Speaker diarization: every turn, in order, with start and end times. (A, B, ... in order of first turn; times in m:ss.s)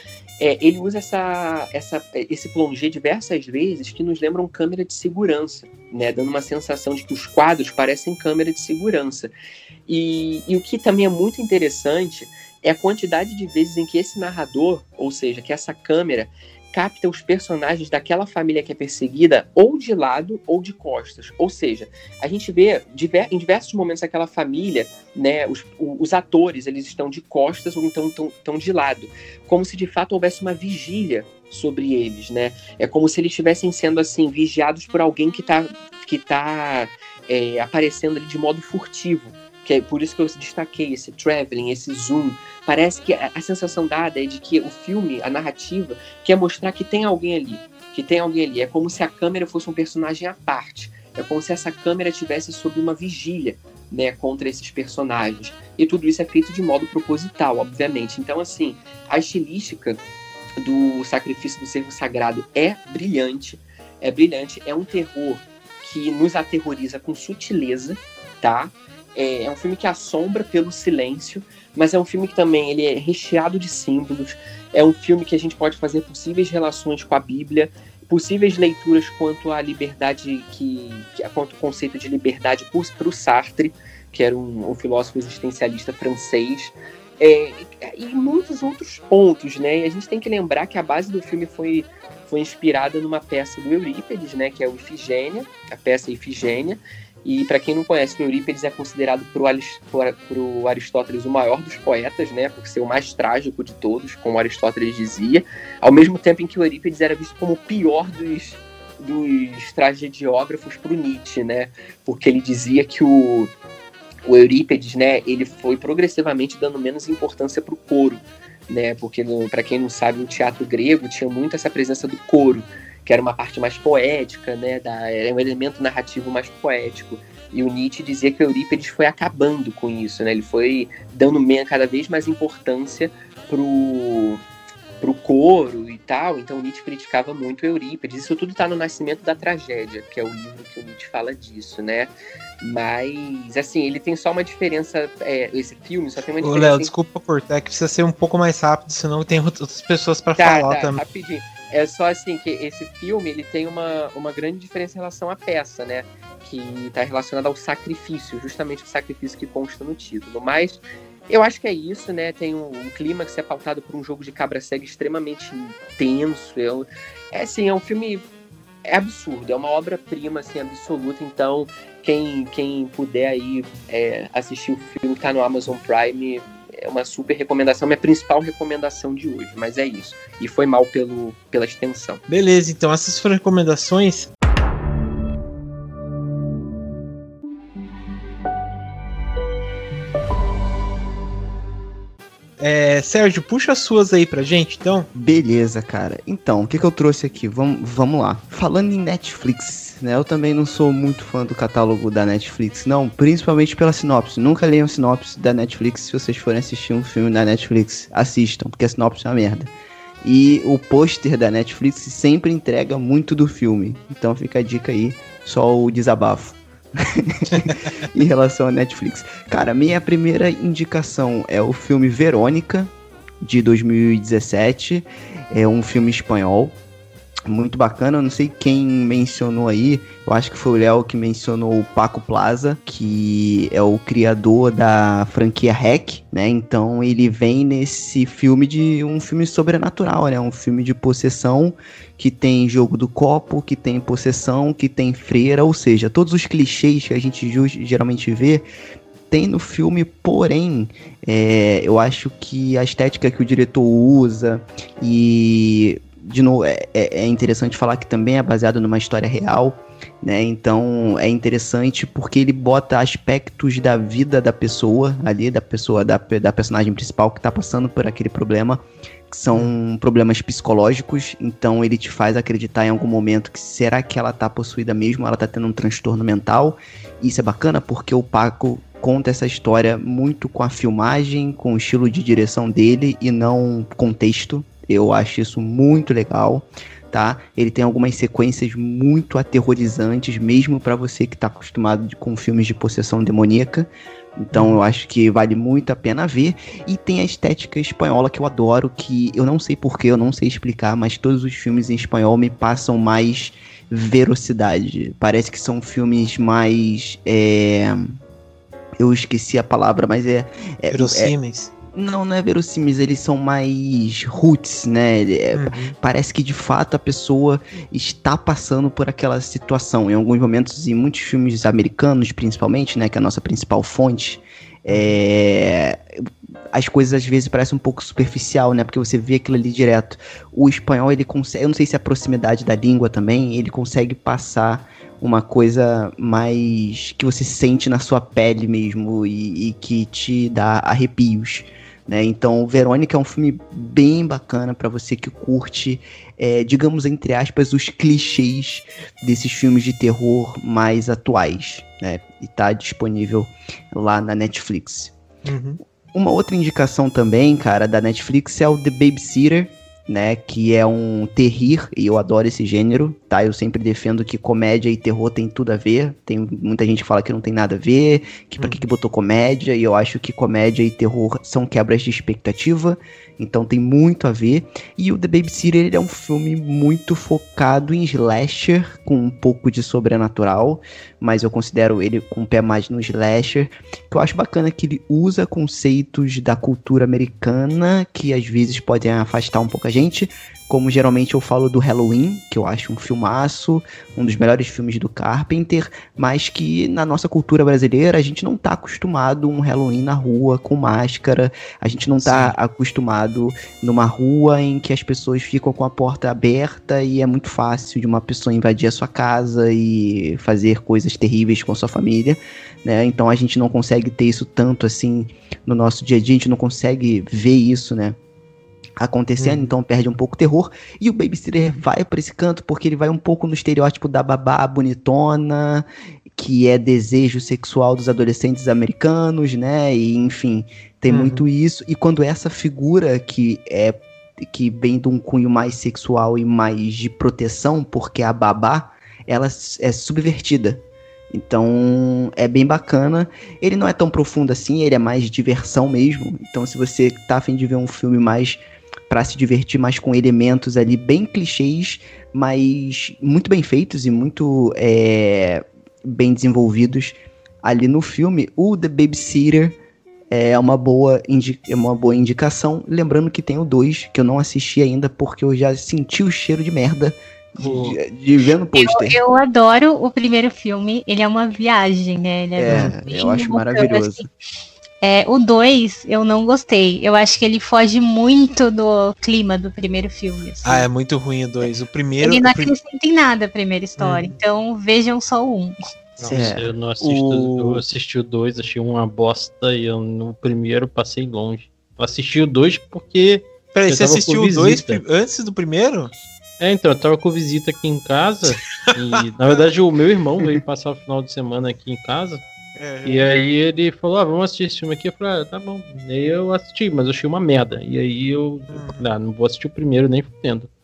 0:00.4-0:09.3 A
0:09.9-1:00.0 A
1:00.6-1:53.5 A
1:54.2-2:14.4 A
2:15.0-2:26.9 A
2:26.4-2:31.0 B
2:30.4-2:48.2 A
2:48.8-3:02.2 A
3:02.3-3:04.3 B
3:12.6-3:15.1 B
3:15.1-3:29.7 C
3:30.2-3:46.8 C
3:47.4-4:08.6 C
4:09.3-5:08.2 C
4:54.5-4:54.8 B
5:09.0-5:11.3 C
5:10.9-5:11.7 B
5:11.9-5:55.1 C
5:15.5-5:15.9 B
5:24.9-5:25.2 B
5:55.4-5:55.8 B
5:56.1-6:58.2 C
6:42.2-6:42.5 B
6:59.0-7:39.8 C
6:59.4-6:59.7 B
7:11.1-7:11.4 B
7:40.3-7:49.2 C
7:47.6-7:48.0 B
7:48.7-7:54.2 D
7:52.6-7:54.3 C
7:52.7-7:53.0 B
7:55.0-8:00.9 D
8:00.6-8:02.7 B
8:02.2-8:05.9 D
8:04.0-8:04.3 B
8:06.2-8:07.8 B
8:06.2-8:15.0 E
8:06.3-8:06.7 C
8:13.7-8:16.1 B
8:16.6-8:22.4 E
8:18.9-8:19.6 B
8:22.8-8:23.2 B
8:23.0-8:30.7 E
8:28.7-8:29.1 B